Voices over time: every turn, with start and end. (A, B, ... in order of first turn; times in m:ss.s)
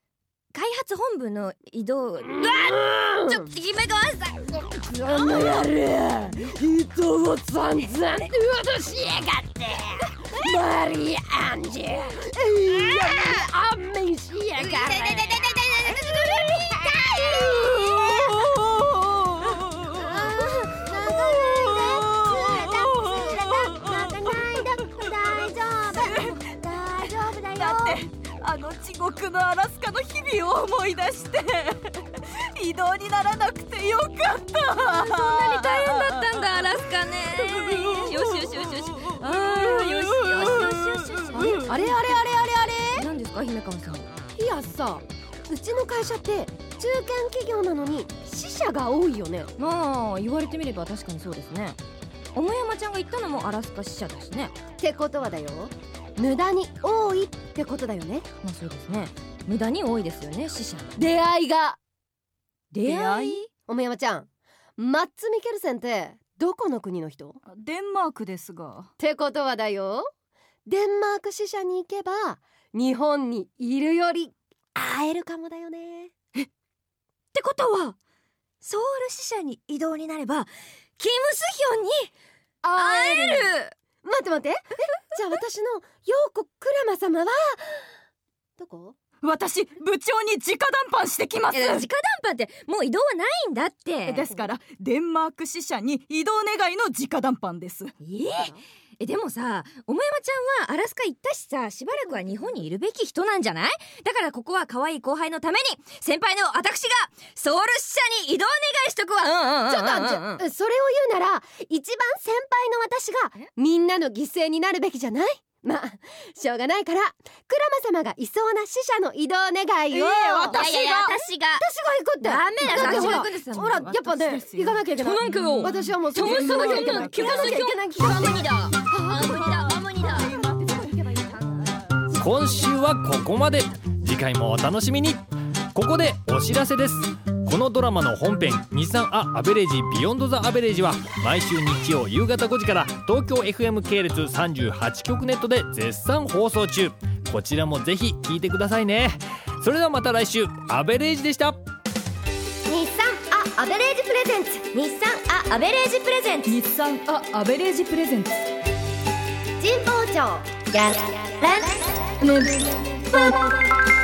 0:00.5-0:05.6 A
0:02.4-0:03.4 B
0:04.7-0:18.4 B
0:12.8-0:13.4 A
0:14.6-0:17.7 A
0:17.6-0:25.1 C
0:19.9-0:28.0 B
0:25.9-0:26.4 C
0:27.0-0:36.7 C
0:34.8-0:42.1 A
0:37.3-0:41.8 C
0:41.3-0:43.1 B
0:43.0-0:44.1 A
0:44.4-0:49.5 B
0:49.6-0:51.8 A
0:52.3-0:54.5 A
0:54.8-0:58.2 B
0:58.4-1:01.0 A
1:01.0-1:01.8 B
1:02.7-1:03.4 A
1:02.8-1:03.5 C
1:03.7-1:07.4 B
1:07.5-1:08.9 C
1:09.0-1:10.1 B
1:10.6-1:16.1 B
1:17.3-1:18.0 A
1:18.6-1:22.1 A
1:22.6-1:23.5 B
1:22.8-1:23.7 A
1:24.0-1:27.9 B
1:28.6-1:29.0 B
1:29.2-1:31.9 C
1:31.5-1:34.5 A
1:34.1-1:37.9 C
1:38.0-1:50.4 A
1:49.7-2:00.6 B
1:59.9-2:01.2 C
2:00.5-2:01.6 A
2:01.6-2:09.4 B
2:02.2-2:03.8 A
2:02.7-2:07.6 C
2:05.0-2:11.7 A
2:09.4-2:11.0 C
2:12.1-2:15.2 D
2:15.7-2:31.6 D
2:32.7-2:36.5 B
2:36.4-2:38.4 C
2:39.6-2:42.0 B
2:42.2-2:43.5 C